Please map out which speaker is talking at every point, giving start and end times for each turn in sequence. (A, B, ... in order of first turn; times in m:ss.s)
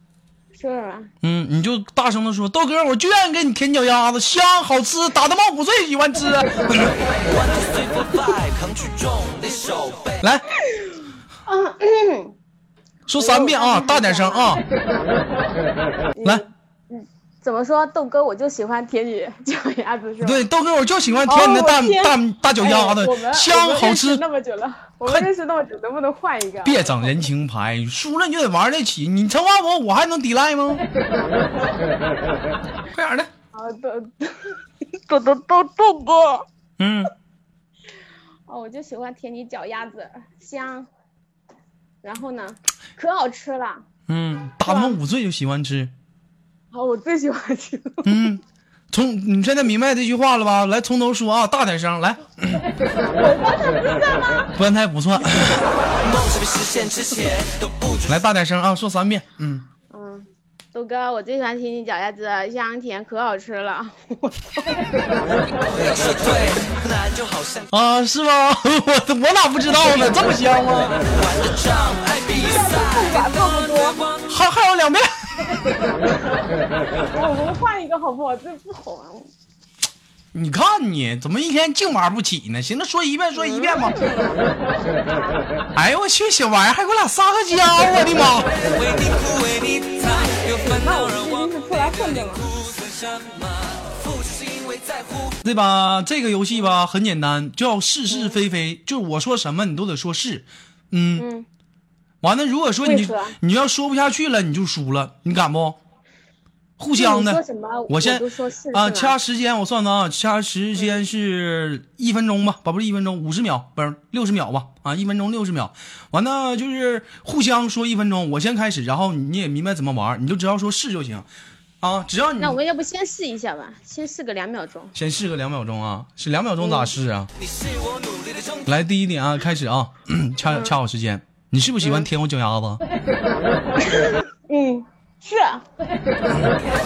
0:00.5-0:01.1 A
0:01.2-0:07.0 B
0:07.3-0:10.2 C
0:10.2-0:10.5 B
0:11.5-0:12.4 A
0:13.1-0:14.6 B
0:13.2-0:14.6 A
0:16.2-0:20.4 A
0:20.2-0:24.2 B
0:21.3-0:27.2 A
0:26.6-0:30.8 B
0:32.9-0:33.3 B
0:33.5-0:36.4 A
0:36.8-0:37.1 B
0:38.5-0:40.9 A
0:42.0-0:43.9 A
0:44.1-0:45.9 B
0:44.6-0:45.0 A
0:46.7-0:48.1 A
0:48.0-0:52.6 B
0:53.2-0:54.5 A
0:54.6-0:55.7 B
0:56.1-0:58.1 C
0:58.1-0:59.7 B
0:59.9-1:04.8 A
1:05.6-1:07.7 C
1:07.7-1:11.0 B
1:11.2-1:14.2 C
1:12.3-1:14.0 A
1:14.3-1:15.7 B
1:16.9-1:19.3 A
1:20.3-1:24.0 B
1:23.4-1:25.4 A
1:25.8-1:28.5 B
1:28.6-1:35.4 C
1:30.3-1:32.5 A
1:35.4-1:41.3 B
1:41.2-1:41.5 A
1:42.2-1:45.8 B
1:42.8-1:43.4 A
1:46.8-2:01.3 B
1:47.0-1:49.2 A
2:01.8-2:02.6 B
2:02.4-2:04.9 A
2:05.0-2:07.3 B
2:06.6-2:06.9 A
2:07.4-2:08.7 C
2:08.7-2:12.8 B
2:10.5-2:10.7 A
2:13.8-2:15.6 A